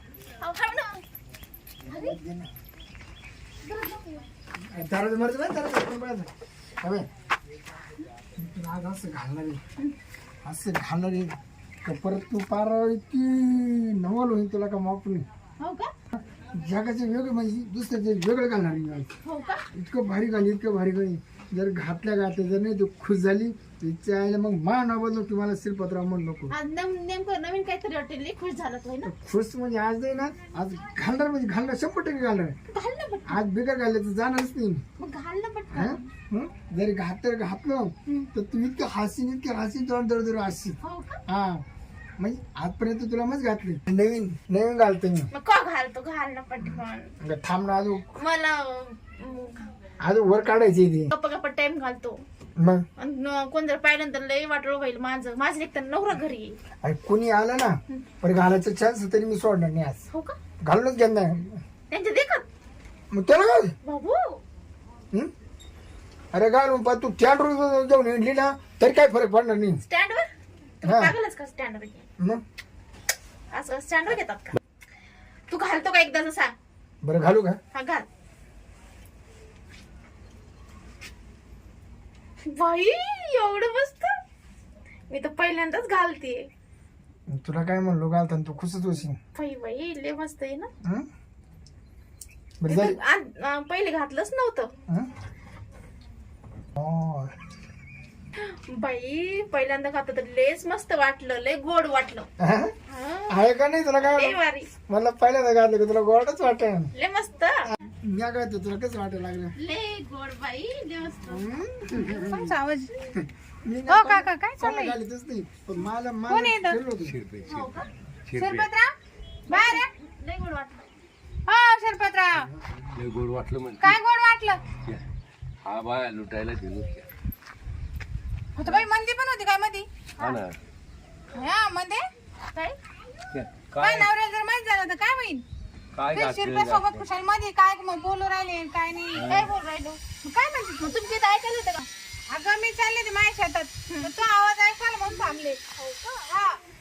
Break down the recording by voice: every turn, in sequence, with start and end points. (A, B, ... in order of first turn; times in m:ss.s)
0:00.4-0:01.0 A
0:01.8-0:02.5 B
0:03.6-0:04.3 A
0:04.6-0:06.3 B
0:06.8-0:07.1 B
0:08.4-0:09.6 B
0:10.4-0:15.2 B
0:15.6-0:15.9 A
0:16.1-0:19.1 B
0:19.2-0:19.7 A
0:19.7-0:26.5 B
0:26.5-0:29.1 A
0:29.0-0:32.6 B
0:32.7-0:33.4 A
0:33.3-0:34.8 B
0:35.0-0:36.0 A
0:35.7-0:41.6 B
0:40.8-0:41.2 A
0:42.2-0:45.3 B
0:45.3-0:47.1 A
0:47.2-0:48.2 B
0:48.2-0:49.7 A
0:50.0-0:51.1 B
0:51.1-0:52.2 A
0:52.6-0:52.8 B
0:53.0-0:56.6 A
0:56.8-1:00.0 B
1:00.1-1:00.4 A
1:00.6-1:01.6 B
1:01.9-1:02.5 A
1:03.1-1:03.8 B
1:03.8-1:04.4 A
1:06.3-1:09.8 B
1:09.9-1:10.3 A
1:10.8-1:12.1 A
1:10.8-1:11.2 B
1:13.5-1:14.6 A
1:15.5-1:16.6 A
1:17.0-1:17.6 B
1:17.7-1:18.1 A
1:22.4-1:24.1 A
1:25.1-1:26.5 A
1:27.3-1:29.2 B
1:29.3-1:30.7 A
1:32.6-1:33.0 B
1:32.7-1:34.7 A
1:36.8-1:37.4 B
1:38.4-1:42.3 A
1:42.4-1:42.8 B
1:42.9-1:43.4 A
1:43.3-1:46.9 B
1:44.0-1:44.7 A
1:46.9-1:47.8 A
1:48.0-1:49.6 B
1:49.6-1:52.0 A
1:51.3-1:52.6 B
1:52.2-1:52.9 C
1:53.1-1:57.2 B
1:53.9-1:55.0 C
1:56.3-1:56.8 C
1:57.0-1:57.7 D
1:57.5-1:57.9 A
1:58.3-1:58.7 D
1:58.4-1:58.9 C
1:59.5-2:00.9 A
1:59.5-1:59.9 C
2:01.5-2:02.5 C
2:02.9-2:04.0 D
2:03.8-2:04.6 C
2:05.6-2:07.0 D
2:08.6-2:09.8 C
2:10.2-2:10.5 D
2:11.3-2:12.0 C
2:13.3-2:14.1 D
2:13.8-2:15.4 C
2:15.9-2:17.0 D
2:16.1-2:19.3 C
2:19.2-2:19.5 D
2:19.3-2:20.0 A
2:20.2-2:20.9 C
2:20.8-2:21.9 A
2:22.3-2:25.6 C
2:25.8-2:26.3 A
2:26.3-2:26.6 C